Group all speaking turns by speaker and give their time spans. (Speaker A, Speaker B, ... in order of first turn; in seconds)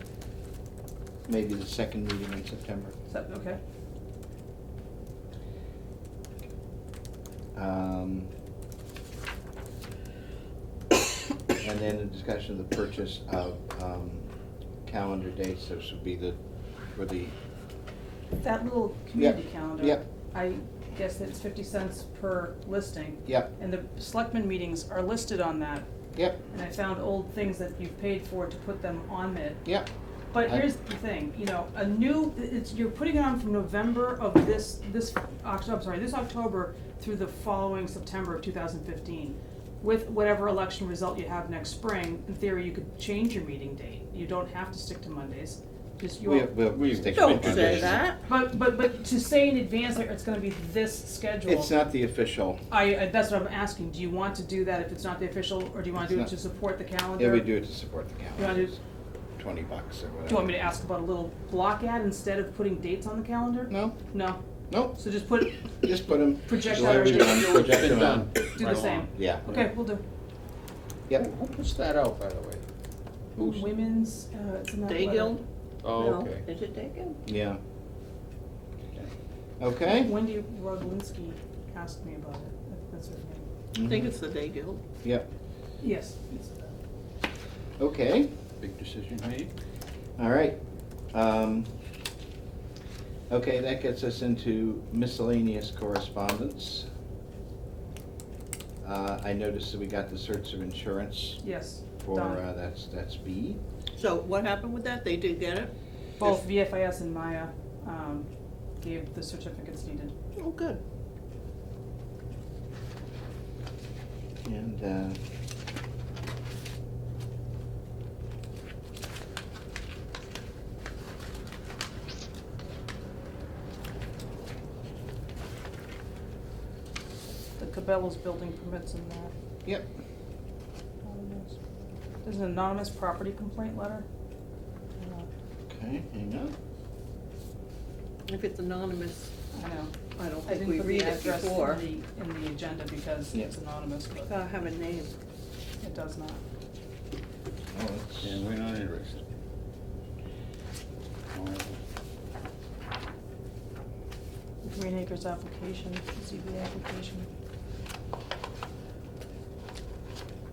Speaker A: 1.3-2.9, 7.5-8.3, 11.6-14.3, 14.8-16.4, 16.9-17.3, 19.2-20.0, 23.3-23.5, 26.1-26.4, 46.2-48.0, 51.5-52.6, 56.0-56.3, 57.2-58.8, 59.4-60.5, 63.7-64.0, 64.7-65.0, 65.8-68.3, 69.1-69.5, 77.3-77.6, 79.6-80.1, 83.7-84.1, 85.0-85.3, 87.8-88.3, 90.2-90.6, 91.1-91.7, 93.3-96.8, 98.8-101.4, 102.0-103.6, 114.5-115.2, 135.7-136.5, 147.7-148.4
Speaker B: 3.1-3.6, 18.4-25.9, 26.5-29.6, 30.3-46.6, 48.3-51.7, 52.7-57.5, 58.4-58.7, 60.3-64.4, 64.9-67.5, 68.6-70.0, 73.4-75.4, 79.8-83.5, 85.8-86.7, 101.4-102.4, 106.2-108.3, 108.8-110.1, 127.6-129.3, 131.0-131.6, 132.2-134.1, 135.0-135.3, 139.5-144.3, 145.8-146.4, 154.6-157.3
Speaker C: 46.7-48.1, 66.7-69.6, 71.1-72.6, 73.4-73.7, 75.8-76.5, 88.6-89.5, 148.2-149.3, 151.3-151.8
Speaker D: 47.1-48.2, 74.9-77.2, 83.8-84.8, 104.0-106.3, 110.4-110.8, 138.3-139.3, 140.2-141.8, 144.2-145.1